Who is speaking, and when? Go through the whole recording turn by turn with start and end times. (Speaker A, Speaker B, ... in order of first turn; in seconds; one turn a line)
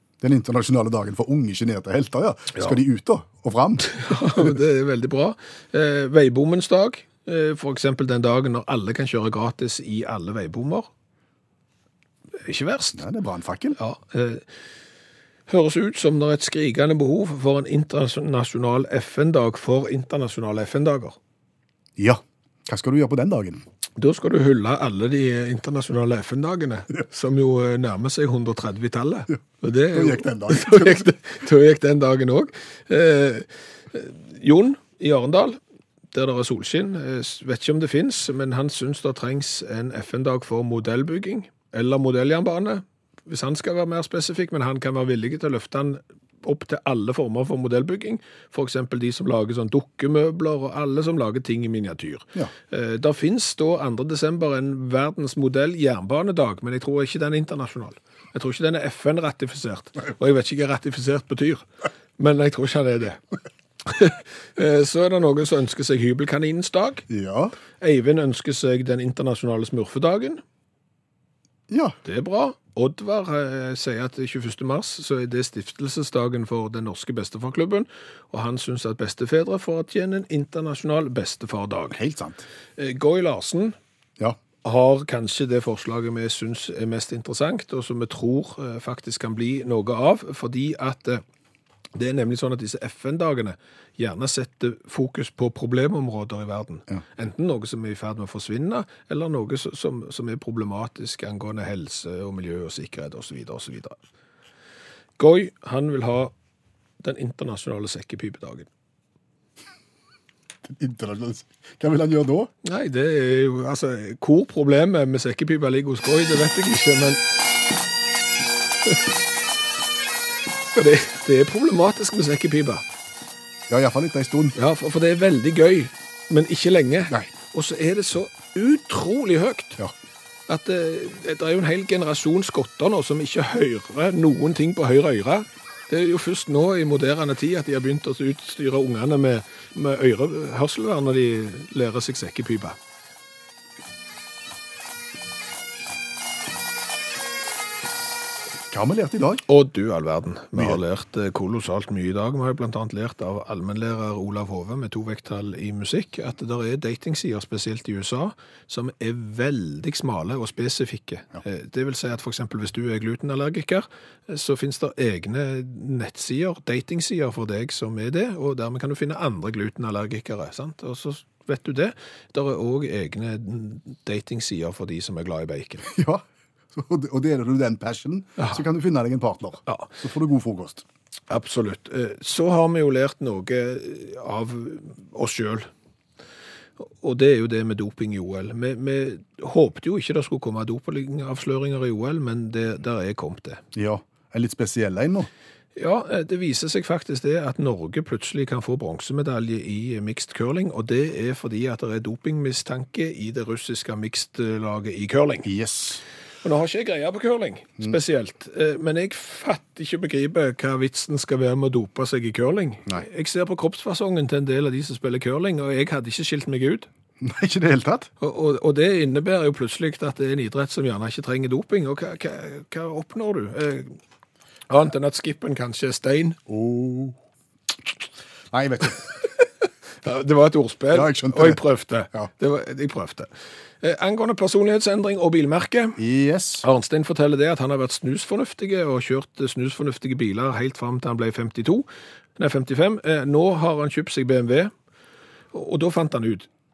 Speaker A: 0.2-4.0
Speaker B: 3.9-10.9
Speaker B: 12.4-13.0
Speaker A: 12.9-13.8
Speaker B: 13.8-14.4
Speaker B: 15.5-21.2
Speaker A: 22.0-23.6
Speaker B: 24.0-35.6
Speaker A: 29.9-31.1
Speaker B: 36.1-61.6
Speaker B: 62.2-63.2
Speaker B: 63.8-67.0
Speaker A: 67.1-67.5
Speaker B: 67.8-70.4
Speaker A: 71.7-72.0
Speaker B: 72.0-82.0
Speaker A: 81.9-82.4
Speaker B: 82.8-83.8
Speaker B: 84.6-91.2
Speaker B: 91.9-104.0
Speaker B: 105.2-106.3
Speaker B: 107.0-108.7
Speaker A: 110.7-112.5
Speaker B: 112.6-117.2
Speaker B: 120.7-122.8
Speaker A: 123.7-124.5
Speaker B: 124.5-129.8
Speaker B: 130.5-142.8
Speaker A: 148.7-149.4
Speaker B: 149.5-175.9
Speaker A: 175.8-180.8
Speaker B: 179.7-179.9
Speaker B: 181.3-185.7
Speaker B: 186.8-193.6
Speaker A: 193.7-195.3
Speaker B: 195.8-205.5
Speaker A: 205.4-206.0
Speaker B: 206.4-216.9
Speaker A: 217.2-218.1
Speaker B: 218.2-224.0
Speaker B: 224.7-226.4
Speaker A: 226.5-227.2
Speaker A: 228.5-229.0
Speaker B: 230.0-233.3
Speaker A: 230.9-231.6
Speaker B: 233.8-236.0
Speaker A: 236.0-236.7
Speaker B: 236.6-244.7
Speaker B: 245.5-246.5